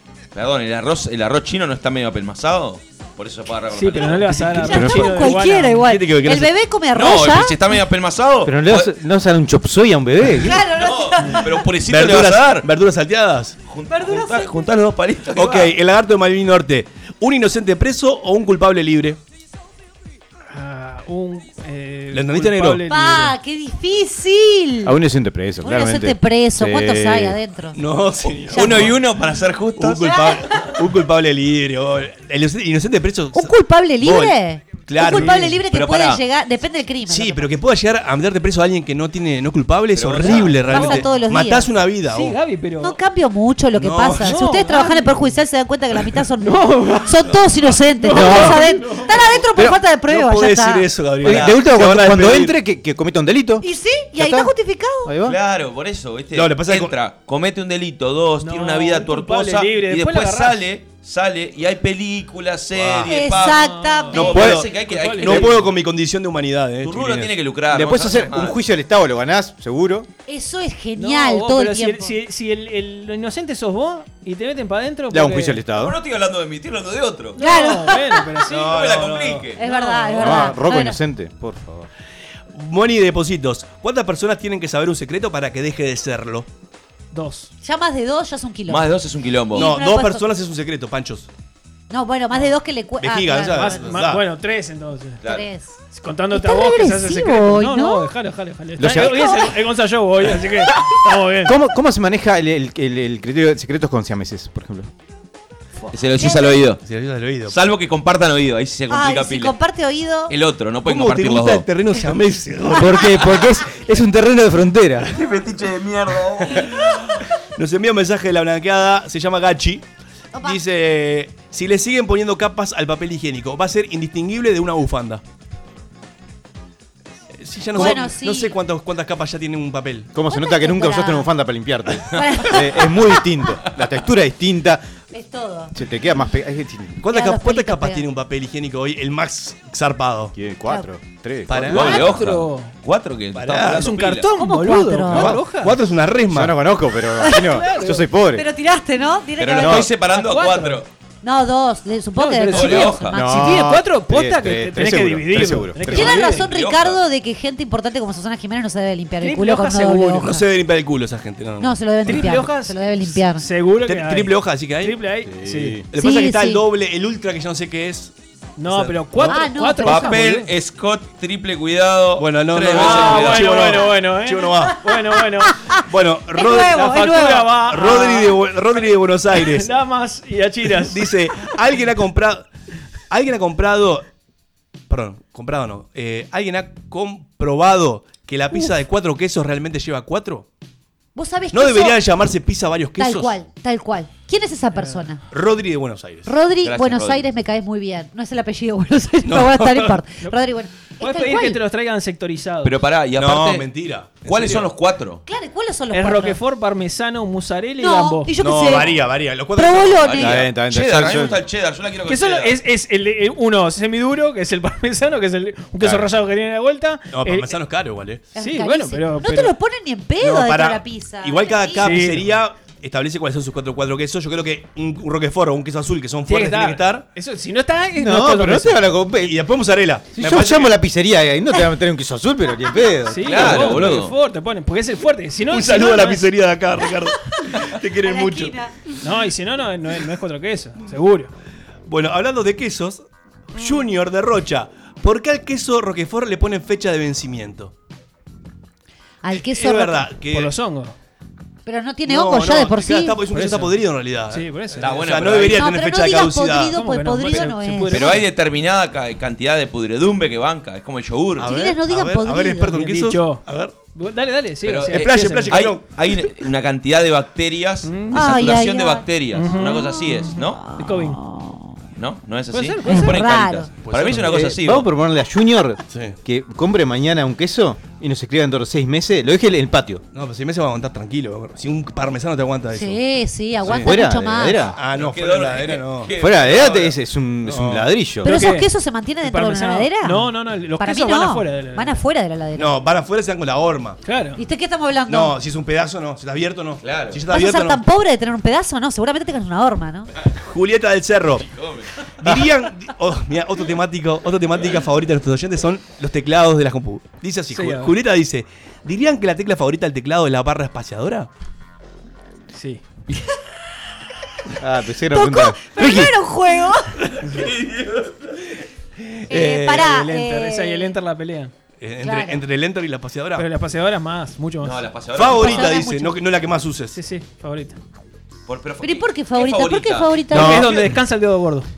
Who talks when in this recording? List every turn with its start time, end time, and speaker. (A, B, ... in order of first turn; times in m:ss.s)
0:00.4-0:04.6 A
0:03.7-0:05.9 B
0:04.6-0:04.8 C
0:04.6-0:07.6 D
0:04.7-0:05.0 E
0:05.8-0:06.5 C
0:06.9-0:08.9 A
0:08.4-0:10.7 E
0:10.4-0:11.7 D
0:10.7-0:12.7 A
0:11.9-0:13.6 C
0:13.7-0:15.7 A
0:13.9-0:14.6 D
0:15.3-0:19.2 C
0:20.5-0:23.4 B
0:22.1-0:22.8 C
0:22.9-0:25.0 D
0:24.8-0:27.4 E
0:25.6-0:27.8 D
0:27.7-0:29.0 C
0:28.3-0:30.4 A
0:28.5-0:28.9 D
0:29.8-0:35.6 C
0:33.3-0:37.5 D
0:35.0-0:35.6 B
0:35.6-0:36.2 A
0:37.1-0:42.4 C
0:39.9-0:40.9 A
0:40.7-0:41.7 D
0:42.1-0:43.0 B
0:42.8-0:50.8 D
0:43.8-0:44.4 C
0:44.2-0:45.3 B
0:46.4-0:47.4 B
0:48.0-0:49.4 B
0:48.1-0:48.6 E
0:50.0-0:52.6 C
0:51.2-0:54.5 E
0:53.6-0:55.1 D
0:55.0-0:55.4 E
0:55.2-1:05.6 A
0:56.3-0:57.0 C
0:58.4-1:00.6 B
1:02.8-1:03.1 C
1:03.1-1:04.6 D
1:03.3-1:05.5 B
1:04.1-1:07.4 C
1:06.8-1:08.6 A
1:07.7-1:10.1 E
1:10.3-1:12.2 D
1:11.0-1:15.7 B
1:15.1-1:16.0 E
1:15.7-1:17.4 A
1:17.4-1:18.3 D
1:17.4-1:18.9 B
1:18.5-1:19.5 C
1:18.5-1:19.6 A
1:19.6-1:21.0 D
1:19.6-1:20.5 B
1:20.2-1:21.9 E
1:22.5-1:26.5 C
1:27.1-1:27.5 B
1:27.6-1:28.9 D
1:28.7-1:29.7 A
1:29.5-1:30.2 D
1:29.6-1:31.3 C
1:31.9-1:33.9 D
1:33.0-1:34.2 C
1:33.5-1:35.2 B
1:35.2-1:35.5 A
1:35.2-1:35.8 D
1:35.9-1:41.5 B
1:36.3-1:38.1 D
1:38.8-1:39.4 E
1:38.9-1:39.5 D
1:41.4-1:44.9 E
1:45.9-1:46.8 A
1:46.2-1:46.6 D
1:46.8-1:47.6 C
1:47.5-1:49.6 A
1:48.9-1:50.3 D
1:50.3-1:51.6 A
1:50.8-1:53.3 C
1:52.7-1:55.1 E
1:55.1-1:56.8 A
1:56.6-1:59.8 C
2:00.4-2:05.2 C
2:07.4-2:10.1 C
2:07.7-2:08.6 D
2:10.1-2:14.8 E
2:10.3-2:11.3 D
2:12.1-2:13.2 D
2:15.1-2:15.8 D
2:15.7-2:17.0 E
2:17.0-2:20.3 C
2:17.1-2:18.0 D
2:20.3-2:21.8 E
2:21.5-2:22.0 C
2:21.7-2:22.7 B
2:21.7-2:24.3 A
2:23.3-2:24.0 C
2:23.7-2:25.8 B
2:24.4-2:25.3 D
2:25.1-2:26.6 C
2:26.3-2:28.5 E
2:27.2-2:27.6 D
2:27.3-2:28.0 B
2:28.3-2:29.9 D
2:29.4-2:30.9 A
2:29.6-2:29.9 E
2:30.0-2:30.8 B
2:31.2-2:33.5 D
2:32.2-2:36.5 B
2:32.5-2:33.2 A
2:33.1-2:36.2 E
2:35.9-2:40.4 D
2:36.1-2:37.0 A
2:39.2-2:40.3 B
2:40.2-2:42.3 C
2:41.6-2:43.4 D
2:42.0-2:45.8 B
2:43.8-2:45.0 C
2:45.3-2:45.8 E
2:45.9-2:48.1 C
2:46.0-2:46.6 D
2:48.6-2:50.5 B
2:48.7-2:49.3 C
2:49.2-2:50.2 D
2:49.8-2:53.8 A
2:52.2-2:54.9 C
2:52.7-2:55.6 B
2:55.8-2:59.7 C
2:56.3-2:57.5 D
2:56.5-2:58.4 B
2:59.4-3:01.2 B
3:00.7-3:02.5 C
3:03.1-3:04.1 C
3:04.9-3:10.5 C
3:11.2-3:12.0 D
3:11.5-3:13.4 C
3:13.0-3:15.2 D
3:14.8-3:15.1 B
3:15.3-3:16.3 C
3:16.3-3:21.6 D
3:16.6-3:17.3 A
3:19.2-3:20.0 C
3:21.0-3:22.7 B
3:22.6-3:23.7 A
3:23.2-3:24.8 C
3:24.2-3:25.2 A
3:25.3-3:26.4 D
3:25.9-3:28.4 B
3:27.8-3:29.0 D
3:28.4-3:30.4 C
3:29.6-3:30.4 D
3:30.0-3:32.6 A
3:30.2-3:31.4 E
3:32.1-3:37.6 B
3:37.1-3:38.3 C
3:38.4-3:39.6 B
3:38.4-3:41.9 D
3:40.2-3:47.1 C
3:41.8-3:42.3 B
3:46.3-3:48.9 B
3:48.0-3:49.4 E
3:49.2-3:50.8 C
3:50.2-3:53.8 E
3:53.1-3:56.3 B
3:53.2-3:54.2 A
3:55.5-3:58.6 C
3:58.0-3:58.7 D
3:59.0-4:01.3 B
4:01.9-4:07.7 C
4:09.2-4:10.1 D
4:09.3-4:10.5 C
4:10.3-4:11.0 B
4:11.7-4:13.2 D
4:12.0-4:16.8 C
4:13.3-4:13.8 B
4:14.3-4:15.0 B
4:14.8-4:15.7 A
4:15.5-4:18.2 D
4:16.7-4:18.2 B
4:17.9-4:21.6 A
4:21.4-4:23.8 C
4:21.4-4:22.7 D
4:22.7-4:25.6 B
4:24.6-4:30.7 A
4:24.9-4:25.9 C
4:27.8-4:28.2 B
4:28.1-4:29.1 D
4:29.3-4:31.2 B
4:30.3-4:31.8 D
4:32.0-4:34.9 A
4:32.5-4:33.3 B
4:32.9-4:33.7 D
4:33.8-4:34.6 C
4:34.3-4:40.0 E
4:35.9-4:36.2 C
4:40.1-4:43.0 C
4:42.7-4:44.6 D
4:43.6-4:44.0 C
4:43.6-4:44.8 E
4:44.7-4:46.9 C
4:44.9-4:46.9 A
4:46.2-4:48.3 E
4:47.4-4:47.9 C
4:48.2-4:48.7 B
4:48.2-4:52.8 D
4:49.2-4:52.0 B
4:52.6-4:54.0 C
4:54.0-4:54.4 B
4:54.4-4:55.4 D
4:55.1-4:57.8 C
4:56.8-4:57.2 A
4:57.3-5:00.1 D
5:00.4-5:01.5 C
5:01.5-5:02.3 A
5:02.2-5:11.3 C
5:07.5-5:07.9 B
5:12.5-5:12.8 B
5:14.6-5:16.1 E
5:15.1-5:17.0 D
5:17.2-5:18.5 A
5:19.3-5:19.9 C
5:19.3-5:21.0 D
5:19.6-5:21.5 B
5:21.8-5:23.5 C
5:22.0-5:22.4 D
5:23.4-5:24.9 B
5:24.6-5:25.8 A
5:25.1-5:27.0 C
5:25.2-5:26.2 D
5:26.9-5:27.8 B
5:28.5-5:30.5 A
5:28.8-5:30.7 D
5:30.3-5:31.7 B
5:30.4-5:30.9 C